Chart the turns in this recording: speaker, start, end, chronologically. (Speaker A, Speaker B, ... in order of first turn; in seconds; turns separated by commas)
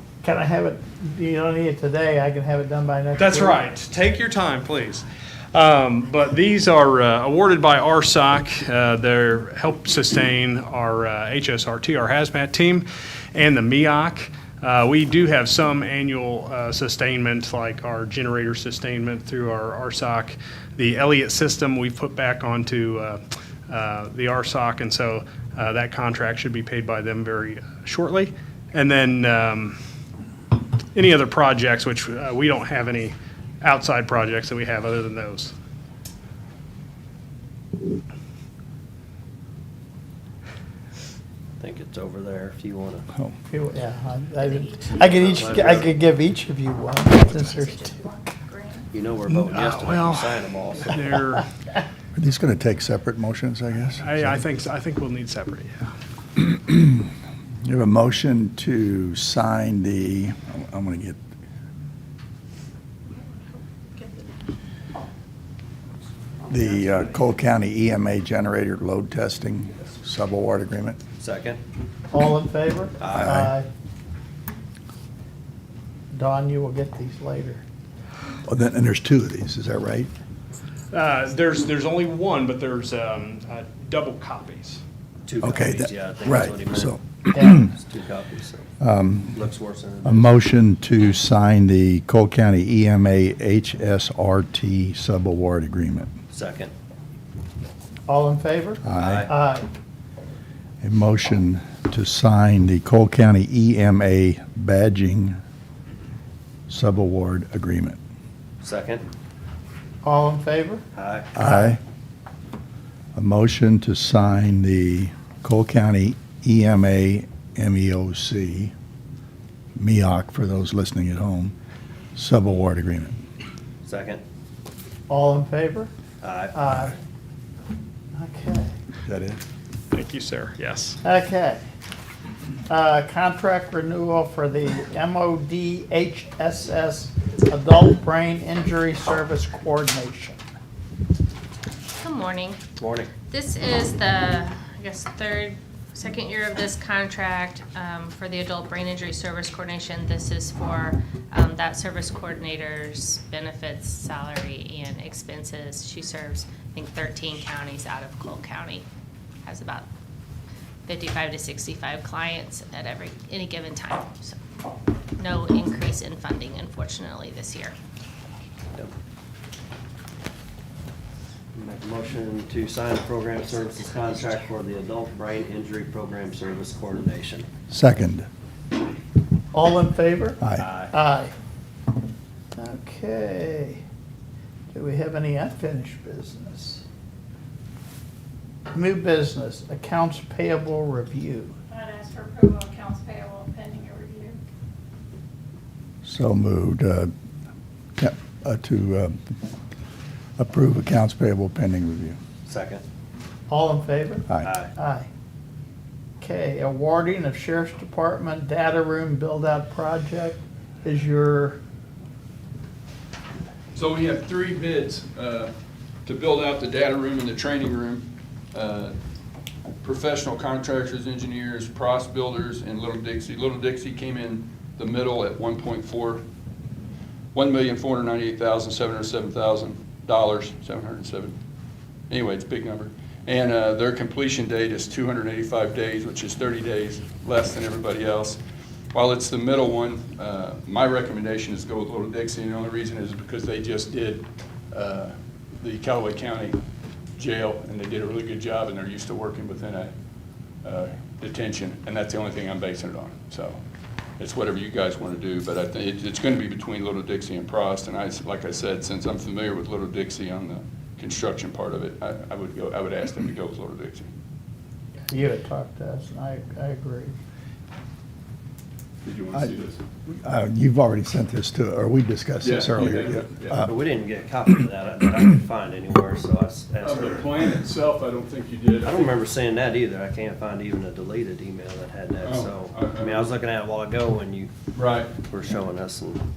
Speaker A: 0.2-3.6, Speaker B: 3.1-29.8, Speaker B: 30.9-35.5, Speaker C: 41.6-43.0, Speaker A: 43.5-48.0, Speaker D: 44.4-45.7, Speaker C: 45.1-45.9, Speaker D: 47.2-48.7, Speaker C: 48.9-51.0, Speaker B: 49.3-51.5, Speaker E: 52.1-54.4, Speaker B: 54.0-55.9, Speaker E: 56.4-57.1, Speaker E: 57.6-61.2, Speaker E: 66.5-71.0, Speaker C: 71.2-71.6, Speaker A: 72.1-73.7, Speaker C: 73.0-73.3, Speaker E: 73.1-73.5, Speaker A: 76.1-77.6, Speaker E: 78.4-80.1, Speaker B: 80.9-84.8, Speaker C: 85.2-87.0, Speaker E: 85.4-87.6, Speaker A: 87.3-87.6, Speaker C: 87.5-88.7, Speaker E: 88.8-89.4, Speaker C: 89.3-90.3, Speaker E: 90.0-96.1, Speaker C: 96.3-96.7, Speaker A: 98.1-99.7, Speaker E: 98.8-99.2, Speaker C: 99.0-99.3, Speaker E: 100.8-105.4, Speaker E: 106.7-108.0, Speaker C: 108.6-109.0, Speaker A: 110.0-110.8, Speaker C: 110.9-111.3, Speaker E: 111.3-111.8, Speaker A: 111.4-111.8, Speaker E: 113.1-118.7, Speaker E: 119.8-121.5, Speaker E: 122.1-123.2, Speaker C: 123.8-124.2, Speaker A: 125.1-125.9, Speaker C: 126.2-126.5, Speaker A: 126.5-127.0, Speaker A: 128.1-128.8, Speaker E: 129.0-129.4, Speaker B: 129.9-131.0, Speaker A: 131.0-131.6, Speaker A: 132.7-140.4, Speaker D: 142.0-142.6, Speaker C: 142.8-143.1, Speaker D: 143.3-158.8, Speaker D: 159.4-159.9, Speaker D: 160.8-164.4, Speaker D: 165.2-167.8, Speaker C: 171.5-177.5, Speaker E: 177.7-178.3, Speaker A: 179.5-181.3, Speaker C: 180.6-180.9, Speaker A: 182.5-183.8, Speaker A: 184.7-186.8, Speaker A: 188.7-191.5, Speaker F: 191.8-194.3, Speaker E: 196.0-197.1, Speaker E: 198.0-199.2, Speaker E: 200.4-202.2, Speaker C: 202.4-202.8, Speaker A: 203.5-205.1, Speaker C: 204.4-204.7, Speaker A: 206.2-211.6, Speaker G: 213.7-215.5, Speaker G: 216.1-218.9, Speaker G: 219.8-226.2, Speaker G: 227.3-231.3, Speaker G: 232.1-238.4, Speaker G: 238.9-246.6, Speaker G: 247.2-249.9, Speaker G: 250.6-253.6, Speaker G: 254.2-264.1, Speaker A: 265.1-267.1, Speaker G: 269.0-269.8, Speaker E: 270.1-273.6, Speaker G: 272.4-273.6, Speaker C: 273.6-277.3, Speaker G: 276.8-279.1, Speaker C: 278.8-284.5, Speaker G: 282.2-283.3, Speaker G: 284.7-285.1, Speaker C: 285.2-286.2